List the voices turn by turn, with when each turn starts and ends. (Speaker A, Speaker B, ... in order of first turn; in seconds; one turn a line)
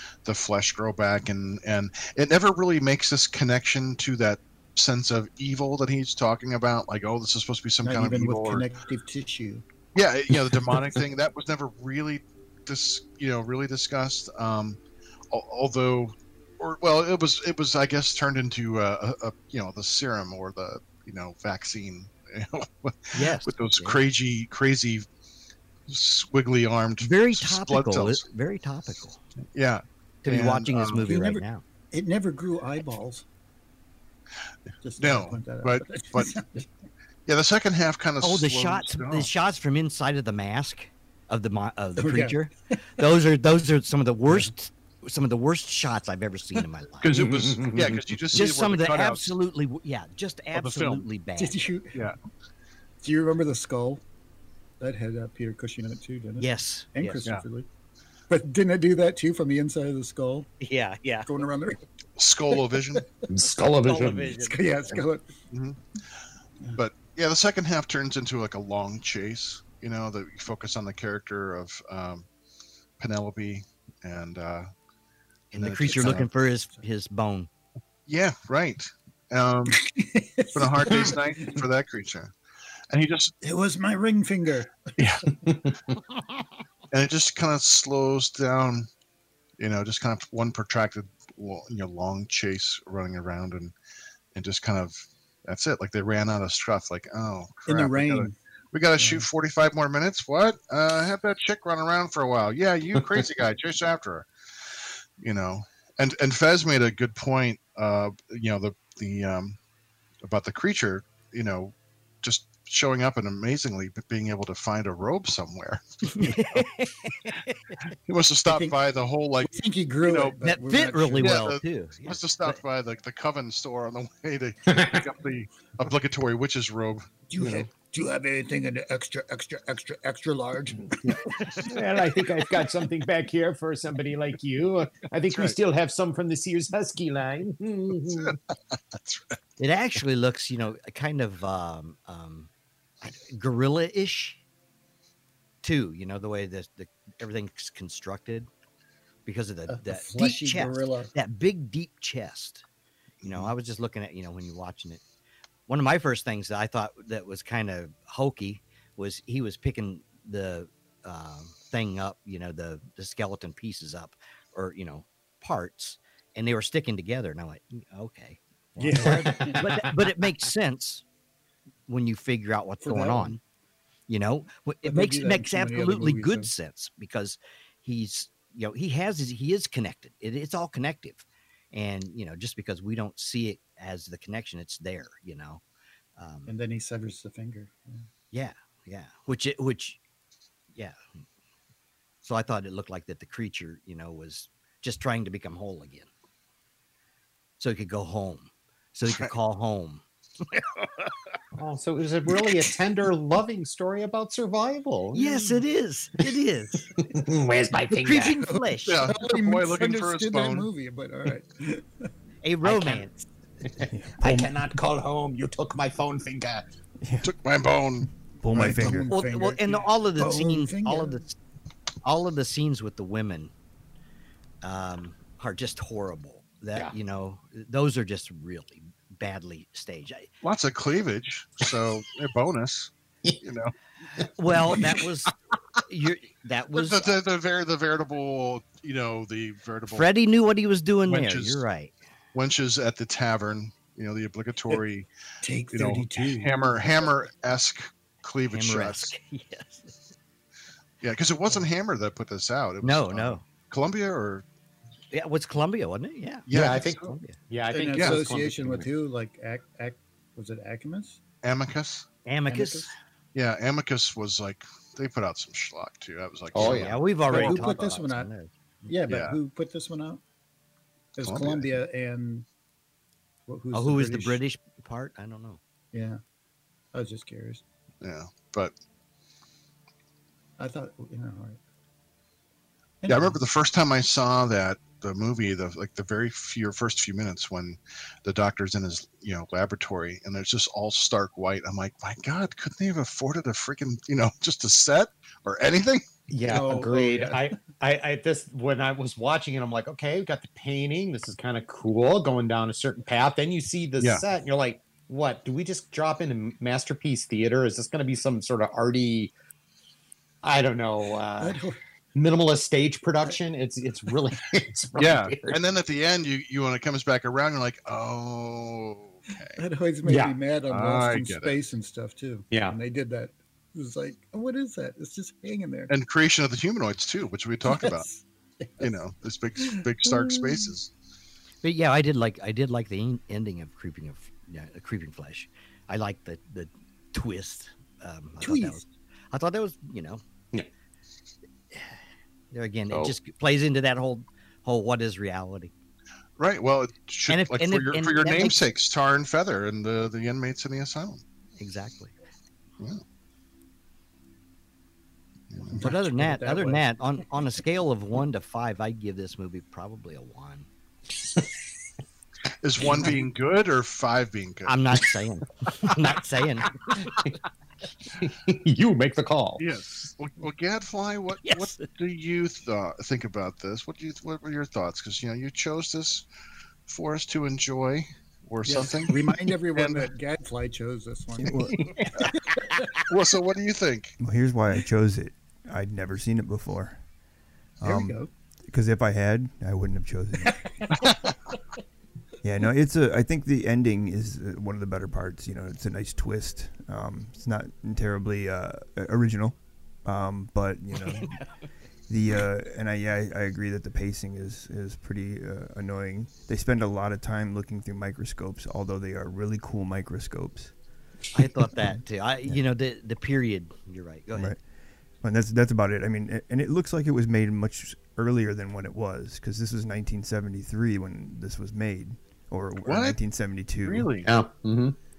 Speaker A: 0.2-8.7
Speaker B: 7.8-9.6
Speaker A: 9.9-14.8
Speaker A: 15.3-25.1
Speaker C: 23.1-24.0
Speaker A: 25.9-28.2
Speaker C: 27.0-29.2
Speaker A: 29.5-31.0
Speaker C: 30.2-31.6
Speaker B: 31.0-33.2
Speaker B: 34.8-36.6
Speaker A: 35.0-36.4
Speaker A: 37.2-39.3
Speaker C: 38.2-47.2
Speaker B: 42.0-42.4
Speaker A: 47.0-49.3
Speaker D: 47.1-48.0
Speaker C: 48.3-51.6
Speaker A: 50.5-51.0
Speaker B: 51.4-52.0
Speaker B: 53.0-54.0
Speaker B: 54.8-57.7
Speaker C: 56.4-57.2
Speaker B: 58.3-60.5
Speaker C: 60.6-61.3
Speaker B: 61.2-61.8
Speaker A: 62.2-63.0
Speaker B: 62.5-63.0
Speaker D: 63.3-64.4
Speaker C: 63.8-64.7
Speaker B: 64.4-65.2
Speaker A: 65.5-66.0
Speaker A: 66.7-72.2
Speaker A: 73.0-74.7
Speaker C: 75.5-77.5
Speaker A: 75.5-76.3
Speaker B: 75.9-76.8
Speaker A: 78.1-79.8
Speaker B: 79.8-81.6
Speaker A: 80.5-82.3
Speaker A: 82.9-83.3
Speaker B: 83.4-85.3
Speaker A: 85.0-85.3
Speaker D: 85.5-85.9
Speaker A: 86.9-88.9
Speaker A: 89.6-93.7
Speaker A: 94.3-104.3
Speaker B: 97.7-98.3
Speaker B: 99.0-99.2
Speaker A: 105.2-109.5
Speaker A: 110.2-116.7
Speaker C: 116.1-117.8
Speaker A: 117.9-119.5
Speaker B: 118.5-118.8
Speaker B: 119.4-121.5
Speaker A: 120.0-120.4
Speaker C: 120.4-122.6
Speaker A: 121.2-127.0
Speaker D: 124.7-125.0
Speaker B: 127.3-131.6
Speaker D: 127.4-127.7
Speaker A: 131.1-131.6
Speaker D: 131.6-138.4
Speaker A: 135.3-135.6
Speaker A: 138.9-139.3
Speaker C: 139.6-142.5
Speaker C: 143.0-144.4
Speaker C: 145.6-148.5
Speaker C: 149.2-152.6
Speaker B: 149.7-151.1
Speaker A: 153.2-153.5
Speaker C: 153.2-155.0
Speaker C: 155.7-171.0
Speaker B: 168.8-169.6
Speaker D: 168.8-170.1
Speaker C: 171.9-173.4
Speaker B: 172.8-173.4
Speaker C: 174.1-185.6
Speaker B: 174.8-176.5
Speaker C: 186.2-186.5
Speaker B: 186.5-188.0
Speaker C: 188.3-190.0
Speaker C: 192.2-196.1
Speaker C: 197.6-200.6
Speaker A: 199.1-199.3
Speaker D: 201.6-205.6
Speaker C: 205.1-206.9
Speaker D: 206.9-208.4
Speaker C: 207.9-209.1
Speaker B: 208.4-212.1
Speaker A: 208.9-210.7
Speaker C: 212.4-213.3
Speaker D: 212.6-213.0
Speaker D: 213.6-216.7
Speaker E: 213.9-214.5
Speaker E: 217.0-217.3
Speaker A: 217.2-218.1
Speaker E: 218.4-219.1
Speaker B: 218.5-221.2
Speaker C: 219.1-221.3
Speaker C: 222.0-223.5
Speaker C: 224.6-230.3
Speaker A: 230.4-232.9
Speaker A: 233.4-233.7
Speaker D: 234.2-235.0
Speaker C: 234.2-235.3
Speaker C: 235.8-237.2
Speaker A: 236.7-240.1
Speaker C: 239.9-241.9
Speaker A: 241.1-241.6
Speaker A: 242.3-245.1
Speaker B: 245.4-246.5
Speaker A: 245.7-249.1
Speaker C: 248.5-250.1
Speaker A: 251.0-254.4
Speaker C: 252.8-253.4
Speaker C: 255.1-257.4
Speaker A: 256.5-257.1
Speaker D: 256.5-258.9
Speaker B: 257.7-261.2
Speaker A: 261.4-262.1
Speaker C: 262.2-262.9
Speaker B: 262.5-262.9
Speaker A: 263.3-267.7
Speaker D: 266.5-267.0
Speaker C: 266.6-268.9
Speaker B: 267.3-268.3
Speaker B: 268.9-270.2
Speaker A: 269.1-269.4
Speaker B: 271.2-272.4
Speaker A: 271.2-271.8
Speaker B: 273.5-274.4
Speaker C: 273.7-275.6
Speaker B: 275.9-276.2
Speaker B: 276.9-277.6
Speaker A: 278.0-278.7
Speaker B: 280.6-281.6
Speaker B: 283.0-283.4
Speaker A: 283.1-296.0
Speaker D: 296.3-309.3
Speaker B: 296.4-297.5
Speaker D: 310.4-311.6
Speaker B: 311.4-311.8
Speaker D: 312.1-315.6
Speaker A: 314.9-319.6
Speaker B: 319.6-325.9
Speaker D: 320.0-320.4
Speaker A: 320.7-321.6
Speaker D: 322.5-322.8
Speaker A: 325.9-328.1
Speaker B: 327.6-328.8
Speaker A: 328.8-330.9
Speaker B: 329.6-330.7
Speaker C: 331.6-340.2
Speaker B: 338.4-338.8
Speaker C: 342.5-345.7
Speaker D: 342.9-343.1
Speaker A: 346.4-351.2
Speaker C: 347.3-348.6
Speaker C: 351.6-352.1
Speaker A: 355.5-355.8
Speaker B: 355.7-356.9
Speaker C: 355.8-360.7
Speaker A: 362.6-364.8
Speaker C: 364.6-367.3
Speaker D: 366.9-367.3
Speaker D: 368.2-369.6
Speaker A: 369.6-376.2
Speaker C: 371.4-371.9
Speaker A: 376.9-380.1
Speaker B: 378.6-382.9
Speaker E: 381.4-381.9
Speaker A: 383.0-384.1
Speaker E: 384.2-387.0
Speaker E: 387.8-390.6
Speaker B: 387.8-388.3
Speaker B: 390.4-391.1
Speaker E: 392.4-401.4
Speaker E: 402.1-410.7
Speaker C: 411.3-414.5
Speaker E: 411.8-412.6
Speaker E: 414.3-414.6
Speaker E: 415.2-424.1
Speaker A: 422.8-423.2
Speaker A: 423.8-424.3
Speaker D: 424.2-424.9